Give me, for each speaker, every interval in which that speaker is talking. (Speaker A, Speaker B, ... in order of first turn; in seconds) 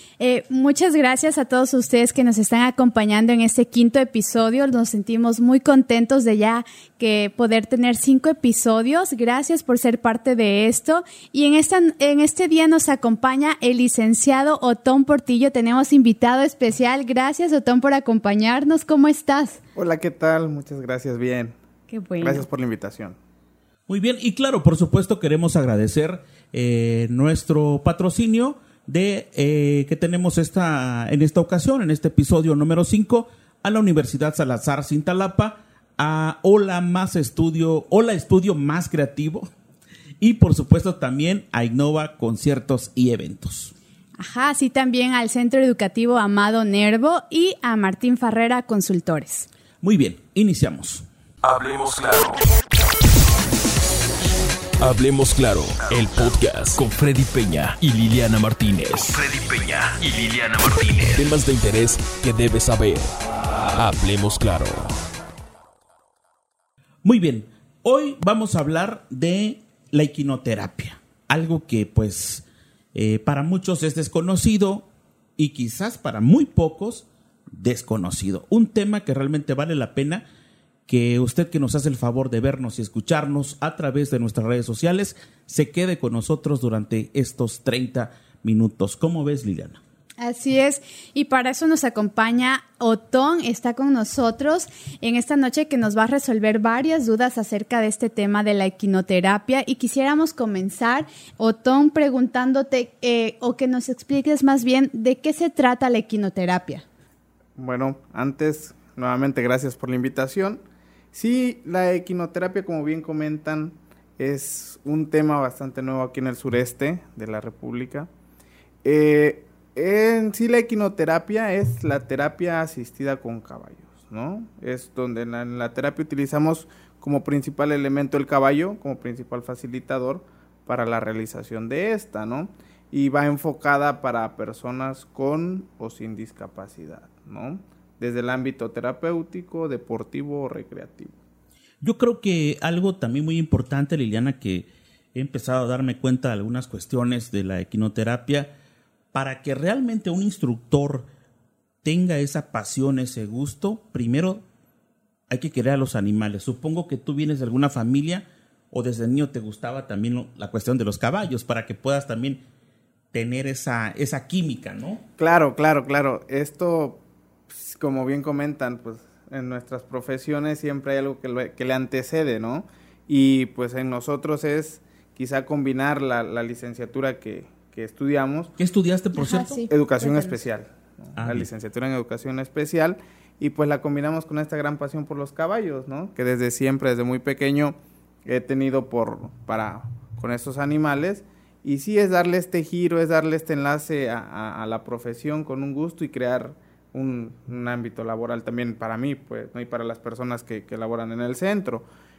Speaker A: 0.2-19.6, 21.9-22.4, 44.2-49.5, 90.2-106.8, 179.2-180.4
Speaker B: 19.7-21.5, 22.2-23.2, 107.5-110.6, 111.1-118.1, 118.8-141.1, 165.2-178.5, 179.7-201.9
Speaker C: 23.9-39.5, 40.2-43.7, 49.8-51.0, 67.0-80.2, 80.9-89.8, 141.8-148.5, 149.1-151.1, 151.8-154.4, 155.3-162.4, 163.1-165.0, 178.6-179.6, 181.2-181.4
Speaker D: 51.4-52.5, 54.8-64.9